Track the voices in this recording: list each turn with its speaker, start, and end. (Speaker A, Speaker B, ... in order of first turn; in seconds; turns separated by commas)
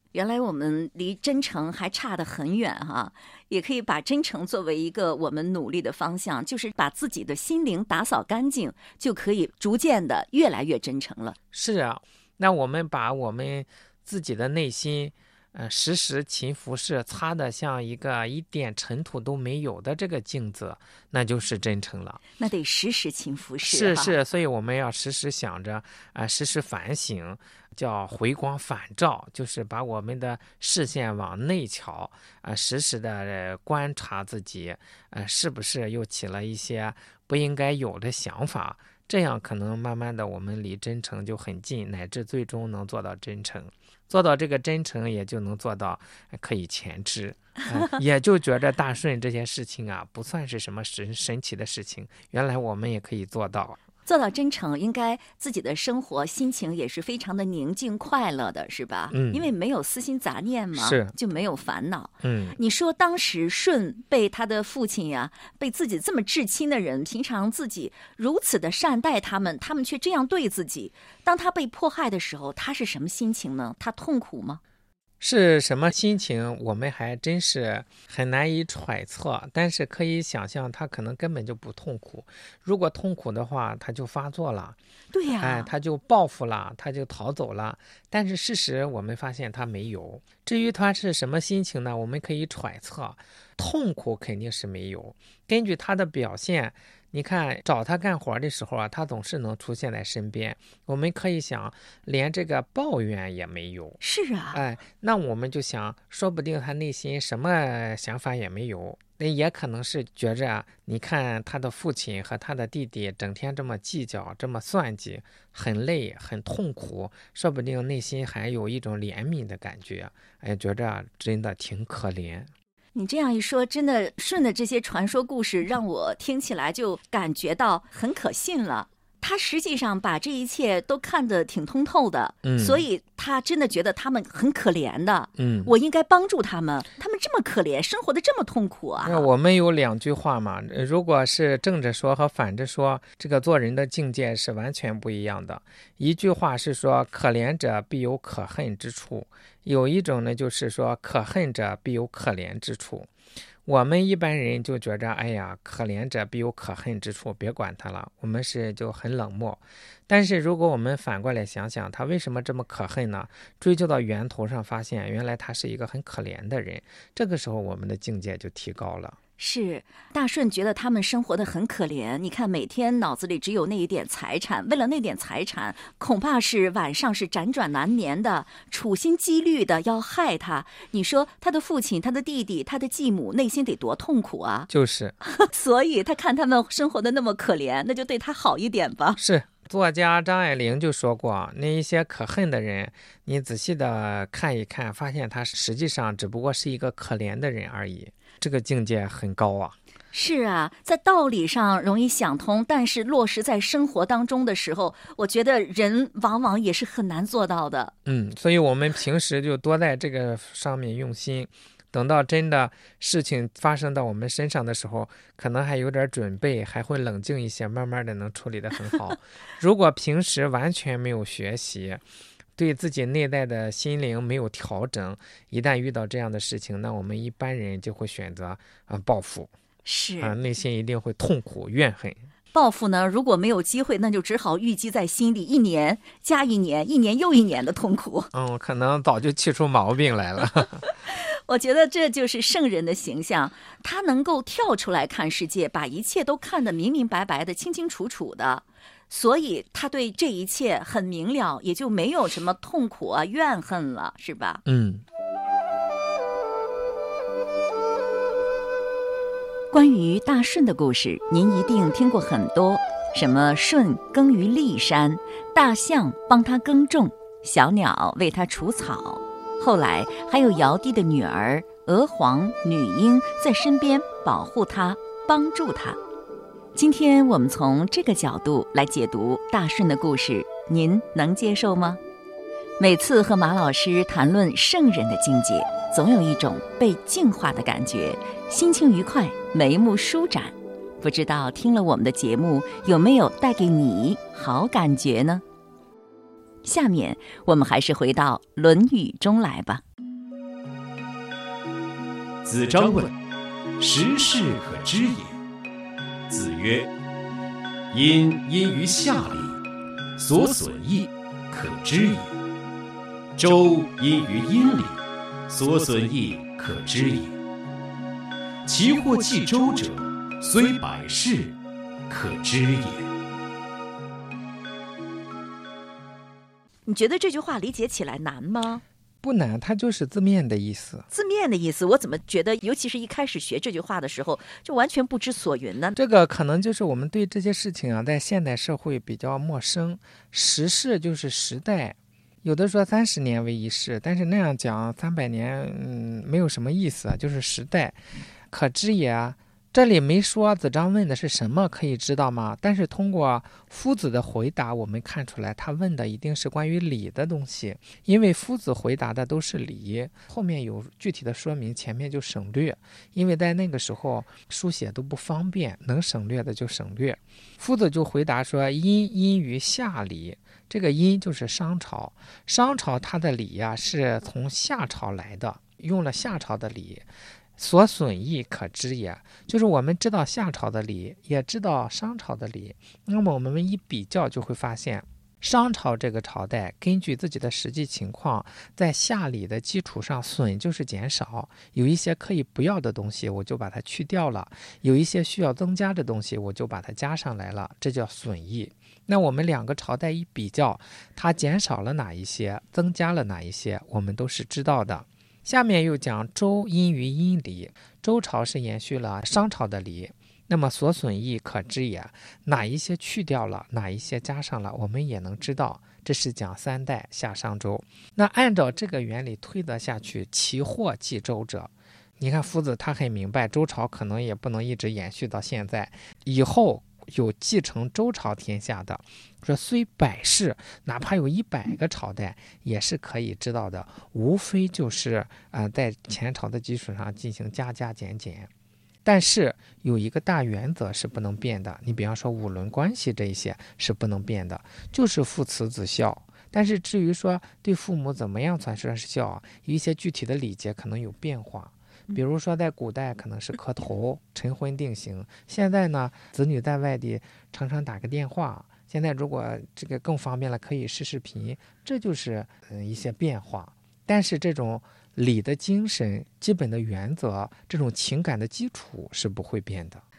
Speaker A: 0.1-11.4, Speaker B: 11.5-22.2, Speaker A: 22.4-24.2, Speaker B: 23.6-53.8, Speaker A: 54.0-74.6, Speaker B: 59.1-59.5, Speaker B: 60.7-61.1, Speaker B: 62.2-62.5, Speaker B: 75.2-84.8, Speaker A: 85.1-85.7, Speaker B: 85.4-104.0, Speaker A: 104.0-104.6, Speaker B: 104.5-122.5, Speaker A: 122.9-139.3, Speaker B: 132.4-132.8, Speaker B: 135.4-135.7, Speaker B: 139.0-153.1, Speaker B: 153.6-169.2, Speaker A: 169.4-184.7, Speaker B: 184.7-185.2, Speaker A: 185.3-189.2, Speaker B: 189.2-199.8, Speaker A: 200.1-207.9, Speaker B: 208.0-222.0, Speaker B: 222.6-229.5, Speaker A: 229.8-230.4, Speaker B: 230.2-232.3, Speaker A: 232.5-238.3, Speaker B: 238.3-240.8, Speaker A: 240.8-254.6, Speaker B: 254.6-255.0, Speaker A: 259.7-276.0, Speaker A: 276.7-282.0, Speaker A: 282.8-295.4, Speaker A: 296.6-299.8, Speaker C: 302.4-303.1, Speaker C: 303.8-305.4, Speaker C: 306.3-306.9, Speaker C: 307.9-309.6, Speaker C: 310.1-312.4, Speaker C: 313.4-317.4, Speaker C: 318.6-321.5, Speaker C: 322.1-323.1, Speaker A: 326.9-328.8, Speaker B: 329.2-331.1, Speaker A: 331.1-335.9, Speaker B: 335.9-438.5, Speaker B: 439.0-470.0